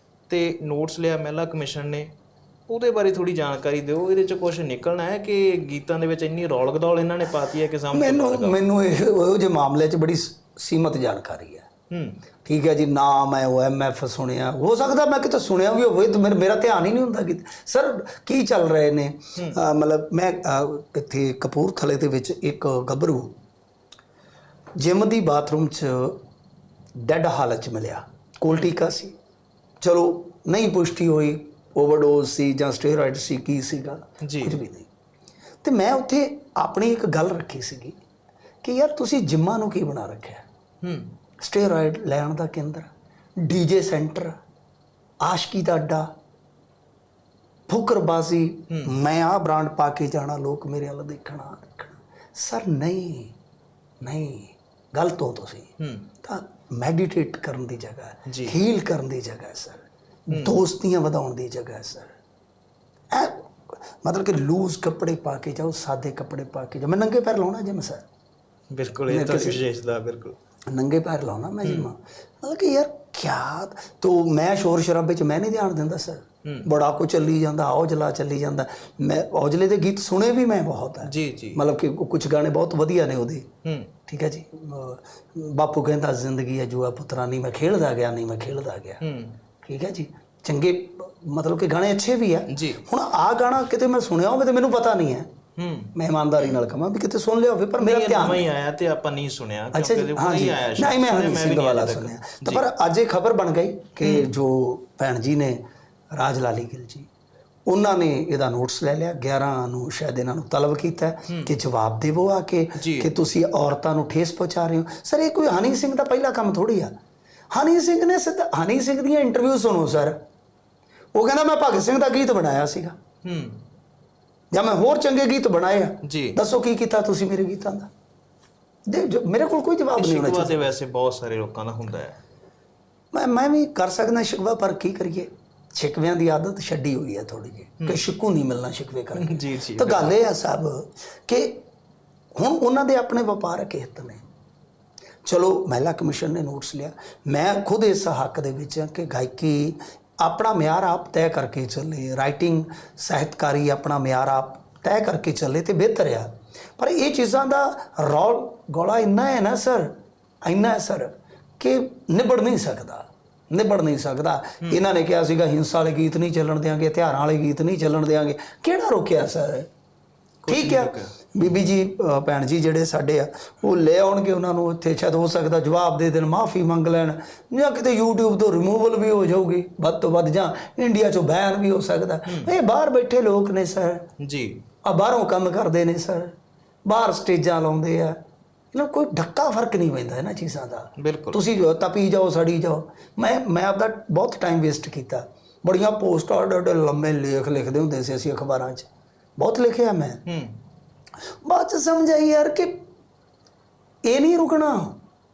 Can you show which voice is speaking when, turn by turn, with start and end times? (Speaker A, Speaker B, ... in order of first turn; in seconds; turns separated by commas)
Speaker A: 0.3-2.1, Speaker A: 2.7-8.6, Speaker B: 7.9-11.7, Speaker A: 11.9-12.2, Speaker B: 12.4-23.3, Speaker B: 24.8-26.2, Speaker B: 27.0-29.1, Speaker B: 29.8-34.9, Speaker A: 34.2-34.6, Speaker B: 35.6-38.0, Speaker B: 38.6-40.4, Speaker A: 40.8-41.1, Speaker B: 41.4-44.4, Speaker B: 45.2-46.1, Speaker B: 47.7-53.3, Speaker B: 54.0-55.7, Speaker A: 55.8-56.1, Speaker B: 56.2-62.1, Speaker A: 58.3-58.5, Speaker A: 60.3-60.6, Speaker B: 63.1-68.0, Speaker A: 68.7-70.4, Speaker B: 69.1-69.6, Speaker B: 70.7-83.5, Speaker A: 81.0-81.6, Speaker A: 83.6-83.9, Speaker B: 84.1-89.0, Speaker A: 89.0-89.4, Speaker B: 89.6-95.3, Speaker A: 92.5-92.8, Speaker A: 95.6-96.5, Speaker B: 95.9-98.5, Speaker A: 97.8-102.7, Speaker B: 99.7-105.6, Speaker A: 104.0-104.3, Speaker B: 106.1-107.1, Speaker B: 107.7-116.9, Speaker A: 112.8-113.1, Speaker B: 117.5-120.2, Speaker B: 121.1-123.0, Speaker A: 123.2-123.6, Speaker B: 124.5-127.9, Speaker A: 126.0-126.4, Speaker B: 128.8-130.6, Speaker A: 129.9-132.2, Speaker B: 133.1-141.6, Speaker A: 139.2-140.1, Speaker B: 142.3-144.2, Speaker B: 145.2-169.7, Speaker A: 170.4-171.6, Speaker B: 170.5-184.0, Speaker A: 182.3-182.5, Speaker A: 184.2-184.6, Speaker B: 184.8-186.3, Speaker B: 186.8-188.2, Speaker B: 188.7-200.2, Speaker A: 191.0-191.4, Speaker A: 200.2-200.6, Speaker B: 201.4-202.8, Speaker B: 204.0-205.0